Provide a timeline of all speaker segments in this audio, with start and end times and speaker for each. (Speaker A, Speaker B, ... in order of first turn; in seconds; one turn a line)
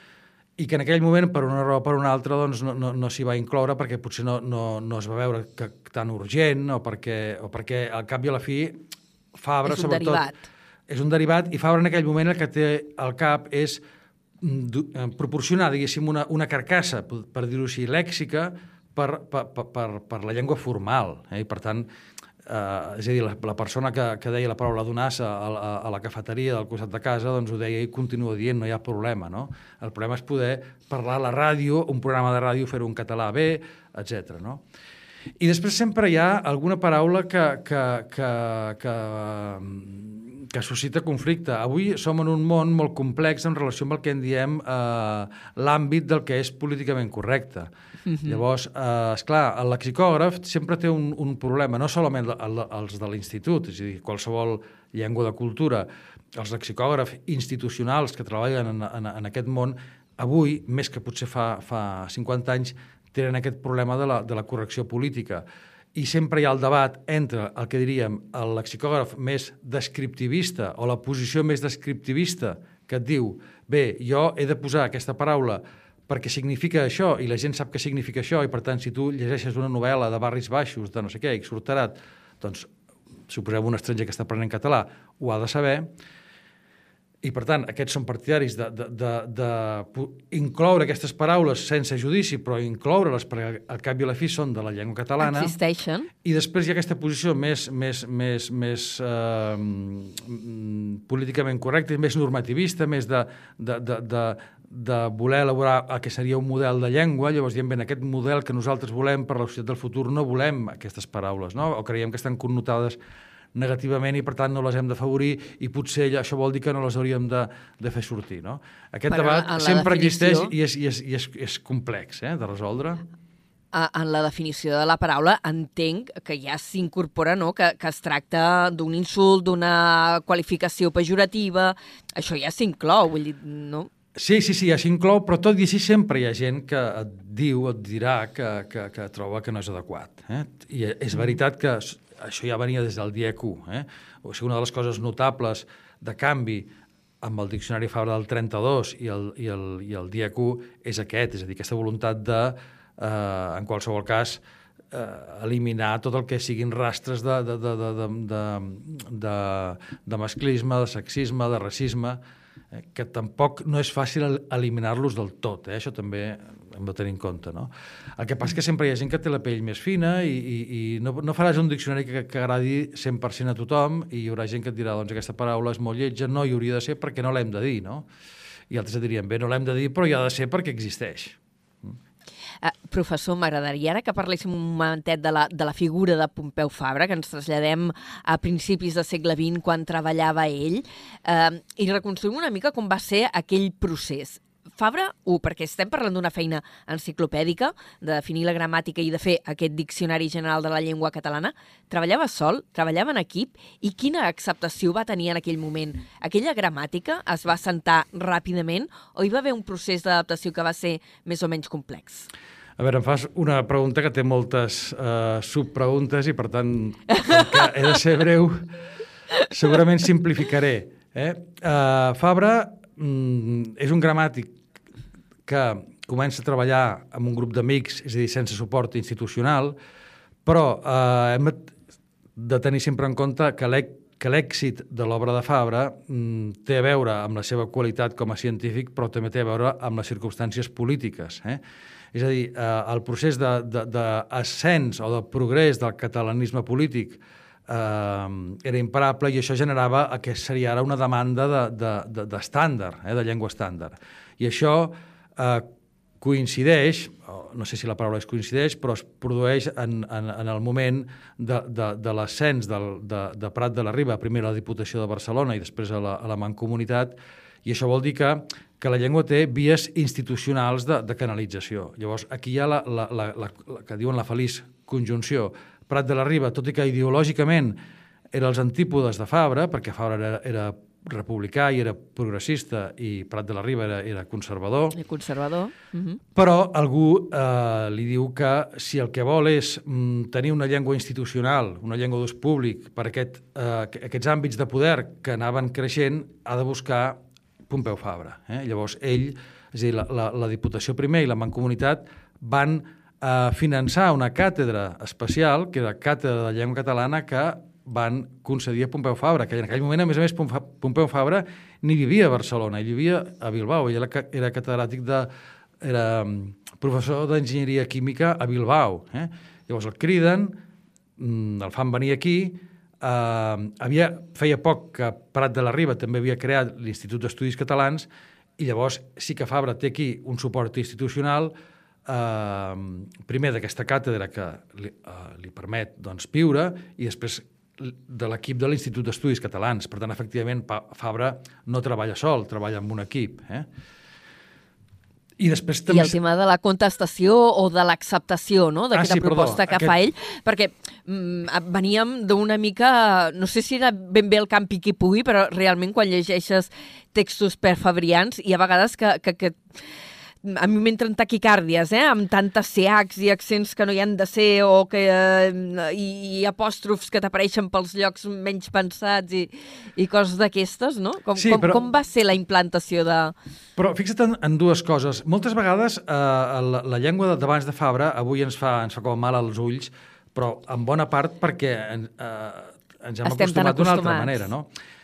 Speaker A: 0.6-8.8
Speaker A: 9.4-10.2
Speaker B: 9.6-10.4
Speaker A: 10.9-13.8
Speaker A: 14.4-21.9
Speaker A: 22.5-34.6
Speaker A: 35.4-47.7
Speaker B: 48.1-48.4
Speaker A: 48.2-55.9
Speaker A: 56.4-65.4
Speaker A: 66.0-82.7
Speaker A: 83.3-85.9
Speaker A: 87.2-95.5
Speaker B: 95.2-96.1
Speaker A: 96.2-113.0
Speaker A: 113.5-123.0
Speaker B: 119.1-120.5
Speaker B: 123.7-133.9
Speaker A: 134.2-146.7
Speaker A: 147.2-154.4
Speaker A: 154.9-162.2
Speaker A: 162.9-178.0
Speaker A: 178.7-182.0
Speaker B: 182.6-212.3
Speaker A: 212.8-218.6
Speaker A: 219.4-224.5
Speaker A: 225.5-229.7
Speaker A: 230.4-231.7
Speaker A: 232.4-241.6
Speaker A: 242.1-255.7
Speaker A: 256.2-277.8
Speaker A: 278.3-284.9
Speaker B: 284.9-286.2
Speaker A: 286.3-315.3
Speaker A: 315.8-320.5
Speaker A: 321.2-328.1
Speaker A: 328.6-331.5
Speaker A: 332.1-343.6
Speaker A: 345.4-346.2
Speaker B: 345.9-359.6
Speaker A: 348.9-349.9
Speaker B: 360.4-373.3
Speaker A: 371.4-371.8
Speaker A: 373.8-384.7
Speaker B: 383.2-384.4